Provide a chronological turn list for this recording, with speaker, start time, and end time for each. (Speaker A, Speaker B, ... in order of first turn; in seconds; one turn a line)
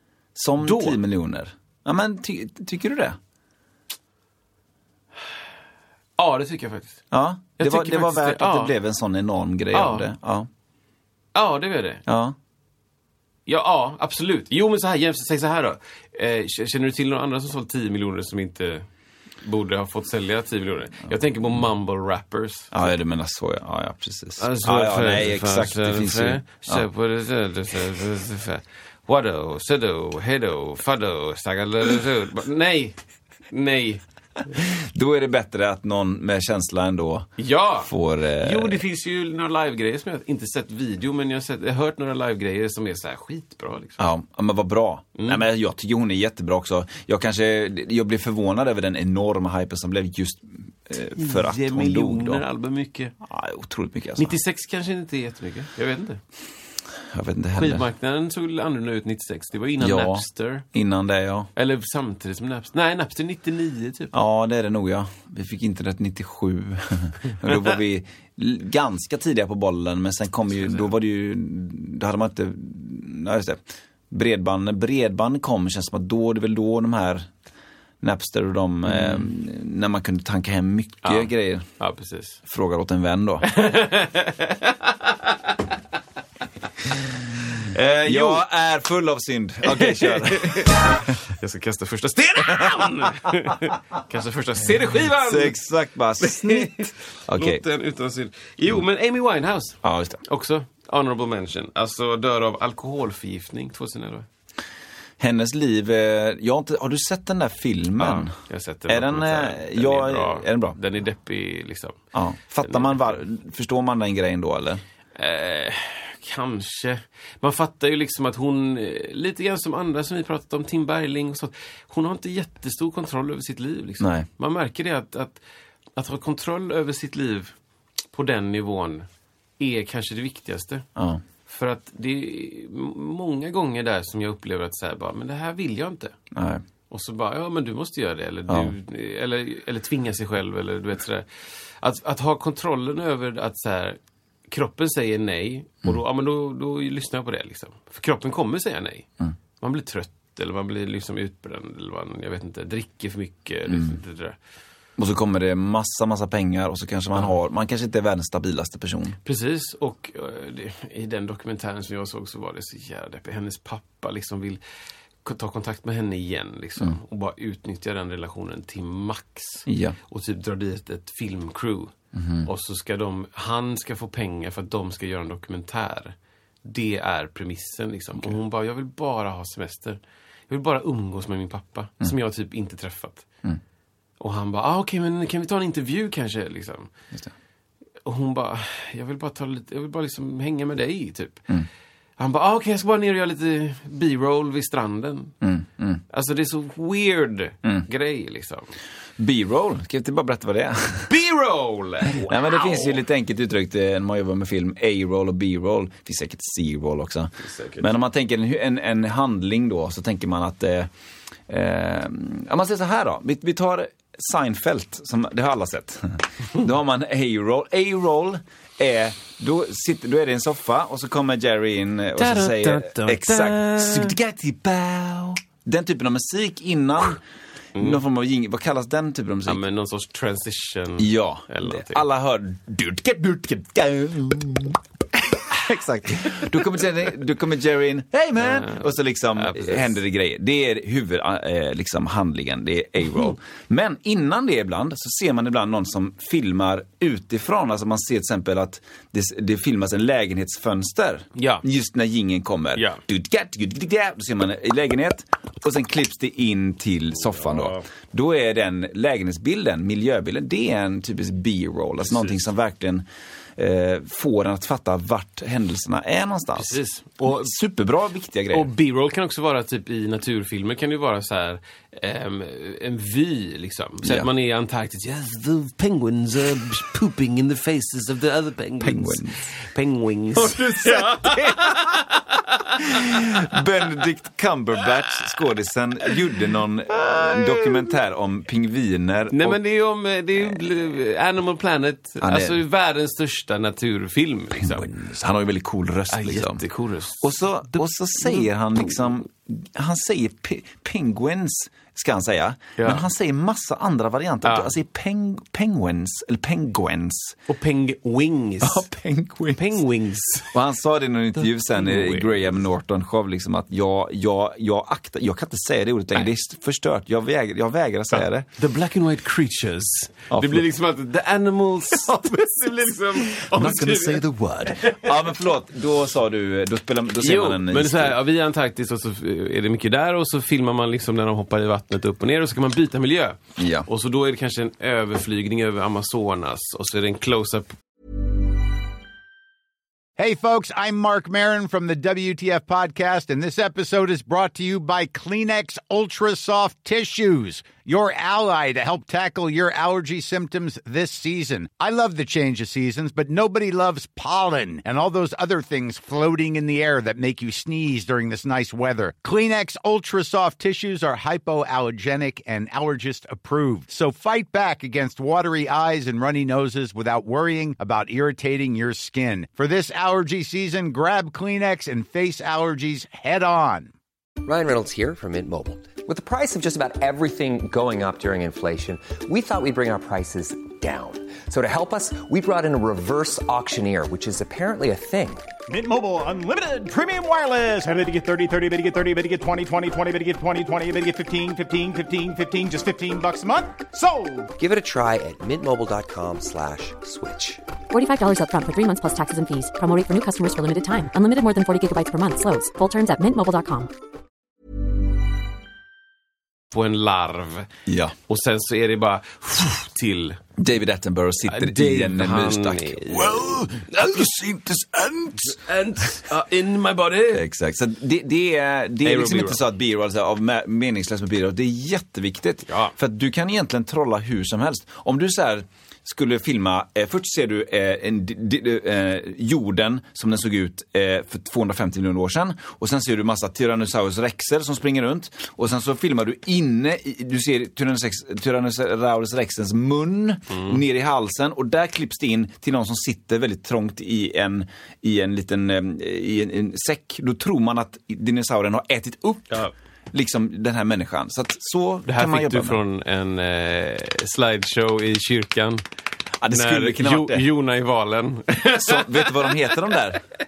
Speaker A: 0.3-3.2
Speaker B: 0.6-1.0
Speaker B: 6.2-7.0
Speaker A: 7.1-10.5
Speaker B: 7.6-8.7
Speaker B: 9.7-10.1
Speaker B: 11.3-12.0
Speaker A: 12.1-12.3
Speaker B: 13.4-18.9
Speaker B: 19.4-22.9
Speaker A: 22.7-26.8
Speaker B: 24.4-33.0
Speaker B: 33.5-34.0
Speaker A: 34.5-37.3
Speaker B: 37.4-44.0
Speaker A: 37.8-38.8
Speaker A: 44.0-52.4
Speaker B: 45.2-45.4
Speaker B: 51.1-53.1
Speaker A: 53.2-54.4
Speaker B: 54.2-56.2
Speaker A: 57.1-57.8
Speaker B: 57.5-60.7
Speaker A: 59.8-61.5
Speaker B: 61.5-64.1
Speaker A: 64.1-77.3
Speaker B: 70.5-70.9
Speaker A: 78.0-81.7
Speaker B: 78.8-79.3
Speaker B: 81.0-82.4
Speaker A: 82.4-83.5
Speaker B: 83.4-85.5
Speaker B: 87.7-88.4
Speaker A: 87.7-91.2
Speaker B: 89.6-95.6
Speaker A: 95.2-97.6
Speaker B: 96.2-104.3
Speaker A: 99.8-100.2
Speaker A: 105.2-108.3
Speaker B: 108.0-112.0
Speaker A: 108.9-110.8
Speaker A: 112.1-114.8
Speaker B: 112.6-113.2
Speaker B: 115.2-125.4
Speaker A: 124.0-124.3
Speaker B: 126.0-127.5
Speaker B: 128.1-129.1
Speaker B: 129.6-130.8
Speaker A: 130.9-131.2
Speaker B: 131.4-136.1
Speaker A: 136.3-136.6
Speaker B: 136.9-154.4
Speaker A: 138.5-138.7
Speaker A: 155.0-159.2
Speaker B: 159.2-164.6
Speaker B: 165.2-183.2
Speaker A: 169.7-170.0
Speaker A: 172.1-172.5
Speaker B: 184.2-186.9
Speaker B: 188.0-191.5
Speaker B: 192.2-195.3
Speaker A: 195.4-196.0
Speaker B: 196.1-198.7
Speaker A: 199.2-201.1
Speaker B: 201.1-203.0
Speaker A: 202.2-210.9
Speaker B: 207.4-207.9
Speaker A: 211.5-227.2
Speaker B: 222.2-224.2
Speaker B: 227.7-228.0
Speaker A: 227.8-229.6
Speaker B: 229.4-232.0
Speaker A: 231.0-263.0
Speaker B: 238.4-239.9
Speaker B: 251.3-251.6
Speaker B: 252.7-253.0
Speaker B: 257.2-257.9
Speaker B: 262.0-262.4
Speaker A: 263.6-268.7
Speaker B: 266.5-267.5
Speaker B: 268.5-283.2
Speaker A: 274.0-274.3
Speaker A: 278.8-279.4
Speaker A: 280.4-282.0
Speaker A: 282.8-289.6
Speaker B: 286.9-287.9
Speaker B: 289.3-294.9
Speaker A: 292.2-292.6
Speaker A: 294.5-296.6
Speaker B: 296.1-298.5
Speaker A: 297.2-307.4
Speaker B: 302.8-303.1
Speaker B: 304.4-304.7
Speaker B: 307.5-308.9
Speaker A: 308.6-309.8
Speaker B: 309.5-310.5
Speaker A: 310.5-318.5
Speaker B: 311.4-312.5
Speaker B: 318.1-325.3
Speaker A: 320.3-320.6
Speaker A: 323.5-328.2
Speaker B: 327.2-337.7
Speaker A: 333.6-333.9
Speaker C: 340.2-373.9
Speaker D: 374.4-385.5
Speaker E: 385.7-394.5
Speaker D: 394.6-397.6
Speaker F: 397.9-403.9
Speaker B: 406.7-407.7
Speaker A: 407.9-408.1
Speaker B: 408.3-410.4
Speaker A: 410.6-415.5
Speaker B: 411.4-417.5
Speaker A: 417.3-449.6
Speaker B: 419.0-419.6
Speaker B: 422.7-422.9
Speaker B: 440.5-440.8
Speaker A: 450.1-452.8
Speaker B: 452.1-455.8
Speaker A: 456.4-457.4
Speaker B: 456.5-460.0
Speaker A: 458.8-460.2